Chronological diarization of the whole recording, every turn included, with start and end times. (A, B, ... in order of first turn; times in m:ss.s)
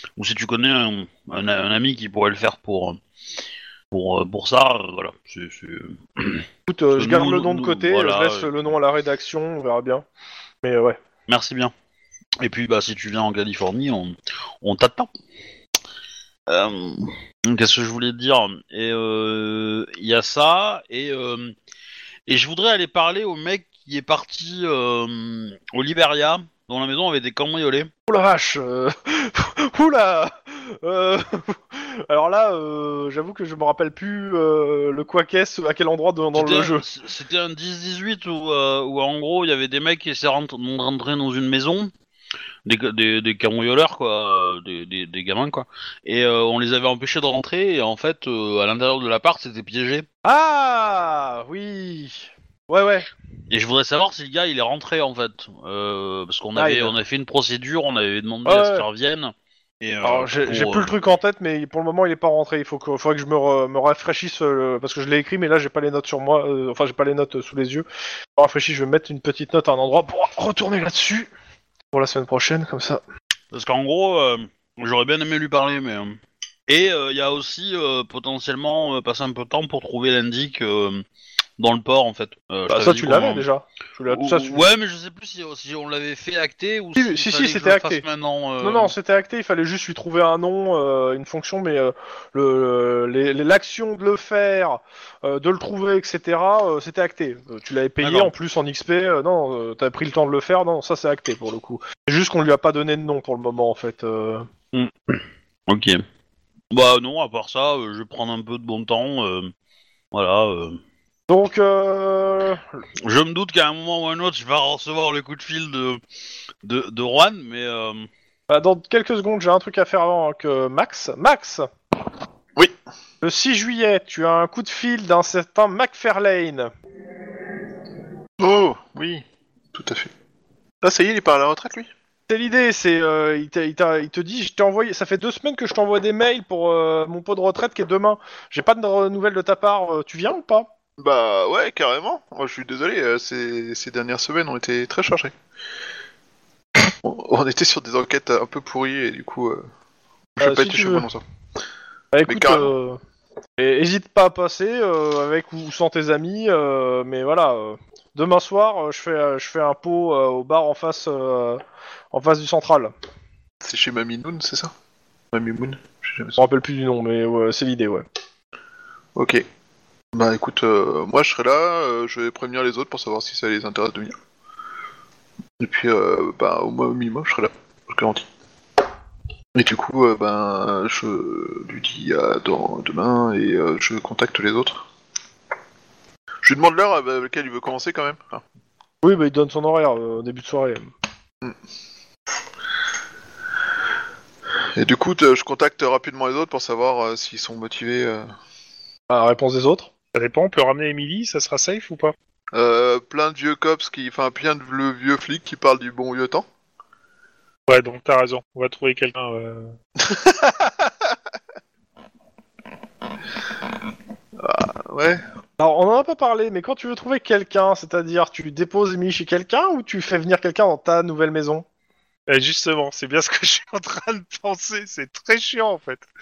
0:00.2-0:03.0 A
0:03.9-0:08.5 A
0:06.7-0:10.0 B
0:10.6-0:11.0 B
0:11.3-0:11.7 A
0:12.4-0:15.1 A
0:16.5-0:21.5 A
0:22.3-0:27.9 A
0:28.1-0:36.8 B
0:36.3-0:41.9 A
0:42.6-0:50.0 A
0:50.2-0:53.1 B
0:53.5-1:00.9 A
0:56.6-0:56.9 B
0:58.4-0:58.9 B
1:00.0-1:07.8 B
1:08.4-1:11.3 B
1:11.9-1:13.0 B
1:13.5-1:21.0 A
1:21.6-1:23.5 A
1:22.7-1:24.7 B
1:24.1-1:28.9 A
1:27.0-1:28.0 B
1:28.6-1:44.5 B
1:38.0-1:38.3 A
1:44.7-1:46.0 A
1:46.7-1:49.5 A
1:50.1-1:50.8 A
1:51.3-1:52.6 B
1:53.0-1:56.0 A
1:56.6-1:58.1 A
1:58.5-2:01.7 B
2:03.2-2:06.7 B
2:08.4-2:10.1 C
2:10.8-2:11.9 C
2:12.3-2:20.7 B
2:21.0-2:25.3 C
2:26.9-2:29.7 C
2:30.3-2:31.2 C
2:30.4-2:31.1 B
2:32.1-2:33.0 B
2:32.3-2:32.7 C
2:33.6-2:42.9 B
2:43.6-2:44.7 C
2:45.3-2:46.4 C
2:46.4-2:48.0 B
2:49.2-2:49.4 C
2:50.1-2:54.2 C
2:55.6-2:58.3 C
2:59.5-3:04.8 C
3:06.4-3:08.4 C
3:09.0-3:10.9 B
3:14.8-3:18.3 C
3:19.1-3:19.9 B
3:20.1-3:22.1 D
3:22.5-3:26.4 C
3:27.7-3:29.7 D
3:30.1-3:30.7 C
3:34.4-3:35.2 C
3:35.6-3:41.6 B
3:42.3-3:46.0 D